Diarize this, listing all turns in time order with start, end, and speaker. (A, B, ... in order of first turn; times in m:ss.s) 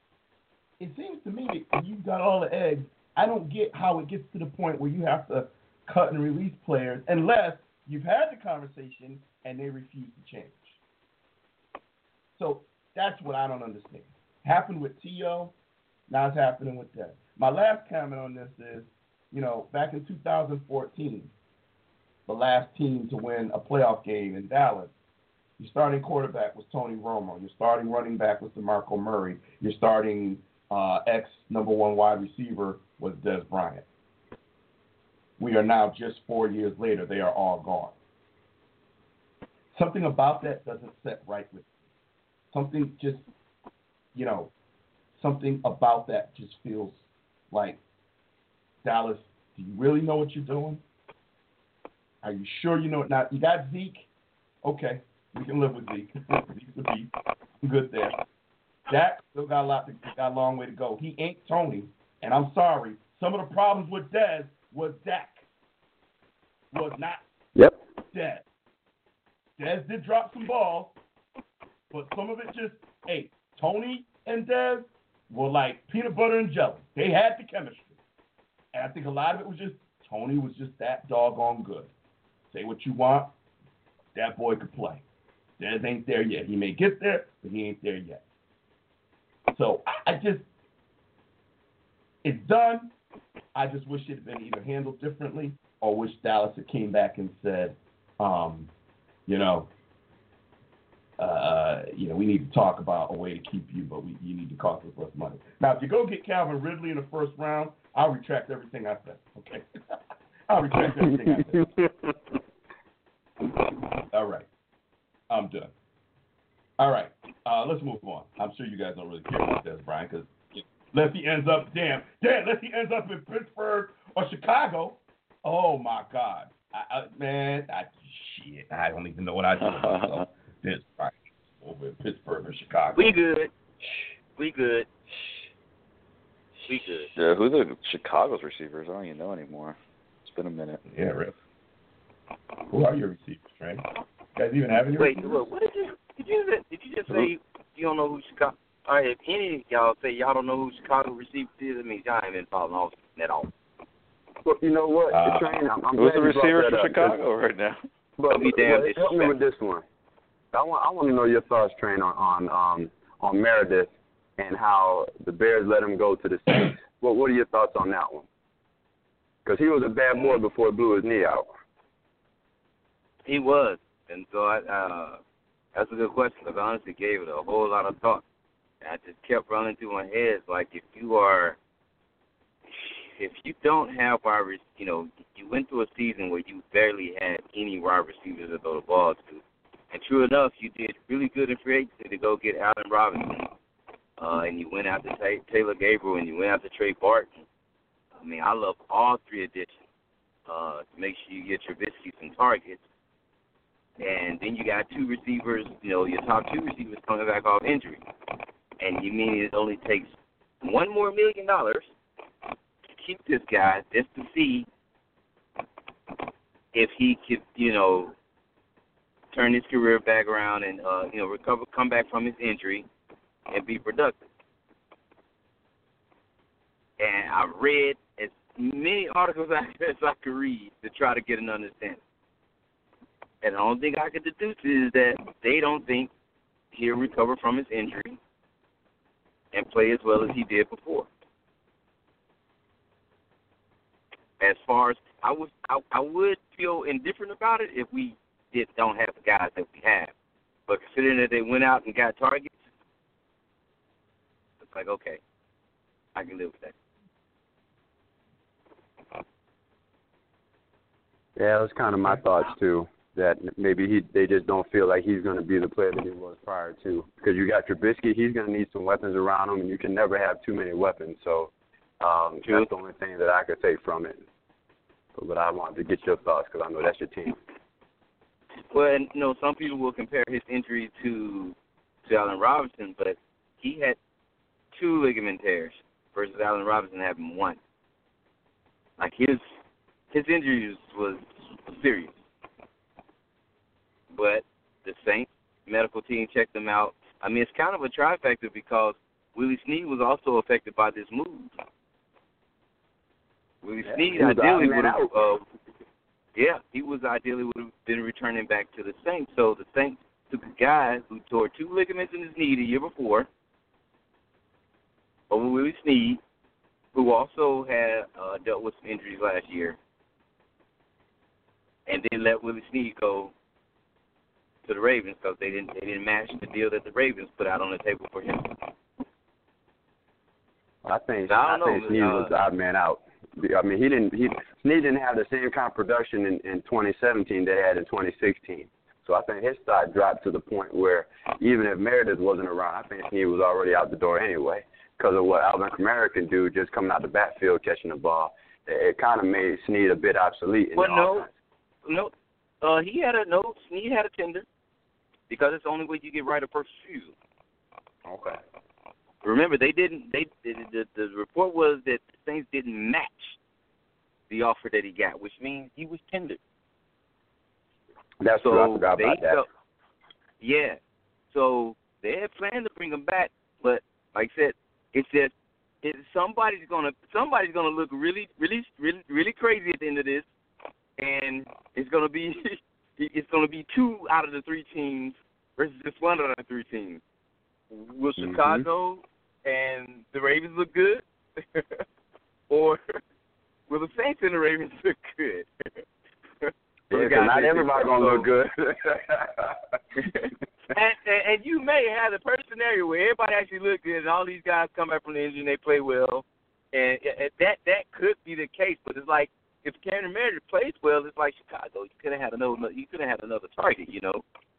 0:00.8-0:10.8 A
0:12.4-0:15.5 A
0:16.1-0:21.3 A
0:22.3-0:24.9 A
0:25.6-0:33.8 A
0:35.4-0:37.9 A
0:39.7-0:41.6 A
0:42.5-0:43.2 A
0:44.1-0:44.5 A
0:45.1-0:47.8 A
0:48.8-0:50.8 A
0:52.2-0:54.1 A
0:54.6-0:57.1 A
0:57.6-0:58.2 A
0:58.9-1:05.4 A
1:06.7-1:07.2 A
1:08.1-1:08.4 A
1:09.6-1:11.0 A
1:11.9-1:17.9 A
1:18.7-1:21.9 A
1:22.5-1:23.3 A
1:24.1-1:25.0 A
1:25.6-1:28.2 A
1:29.5-1:30.4 A
1:32.2-1:32.9 A
1:33.5-1:38.7 A
1:39.3-1:39.7 A
1:41.2-1:51.7 A
1:51.0-1:52.1 B
1:54.1-1:54.5 A
1:55.3-1:55.7 A
1:56.8-2:13.1 A
2:09.6-2:10.2 C
2:13.0-2:13.5 D
2:14.4-2:14.9 D
2:16.7-2:17.1 D
2:17.2-2:20.8 C
2:20.9-2:21.3 A
2:22.7-2:23.8 A
2:24.3-2:25.4 A
2:24.9-2:33.5 D
2:34.4-2:37.2 B
2:35.1-2:35.4 A
2:36.0-2:37.8 C
2:38.2-2:39.8 B
2:38.3-2:39.3 D
2:40.5-2:48.3 B
2:49.4-2:51.5 B
2:53.2-2:55.2 D
2:55.7-2:58.2 D
2:58.8-3:01.6 D
3:03.2-3:13.5 D
3:14.2-3:17.4 D
3:18.2-3:19.8 D
3:20.5-3:22.8 D
3:24.0-3:28.0 D
3:28.8-3:30.1 D
3:30.6-3:31.9 D
3:33.0-3:34.7 D
3:36.7-3:38.1 D
3:39.3-3:42.9 D
3:43.5-3:44.2 D
3:47.0-3:52.0 D
3:53.4-3:56.1 D
3:56.7-3:58.2 D
3:59.5-4:01.1 D
4:04.4-4:10.1 D
4:10.7-4:12.5 D
4:14.6-4:15.2 D
4:16.1-4:16.7 D
4:21.4-4:34.2 B
4:35.1-4:37.4 B
4:38.7-4:41.5 D
4:42.1-4:44.0 D
4:44.7-4:47.6 D
4:49.0-4:49.4 D
4:50.1-4:52.1 D
4:54.1-5:01.5 D
5:03.6-5:05.4 D
5:03.8-5:05.1 B
5:06.3-5:13.3 D
5:15.3-5:16.2 D
5:16.9-5:19.8 D
5:21.9-5:23.3 D
5:24.6-5:28.6 D
5:30.8-5:51.3 B
5:31.3-5:32.3 D
5:50.8-5:51.3 D
5:51.8-5:52.1 D
5:52.6-5:54.4 D
5:55.3-5:57.1 D
5:58.0-5:58.4 B
5:59.2-6:03.4 D
6:04.3-6:06.4 D
6:08.2-6:09.4 B
6:08.4-6:09.4 D
6:10.4-6:10.8 D
6:11.3-6:15.3 D
6:15.8-6:20.2 D
6:21.0-6:27.0 D
6:27.7-6:31.8 D
6:28.2-6:28.6 B
6:32.5-6:32.9 D
6:33.7-6:35.7 D
6:36.4-6:38.3 D
6:36.9-6:39.5 B
6:40.7-6:54.2 D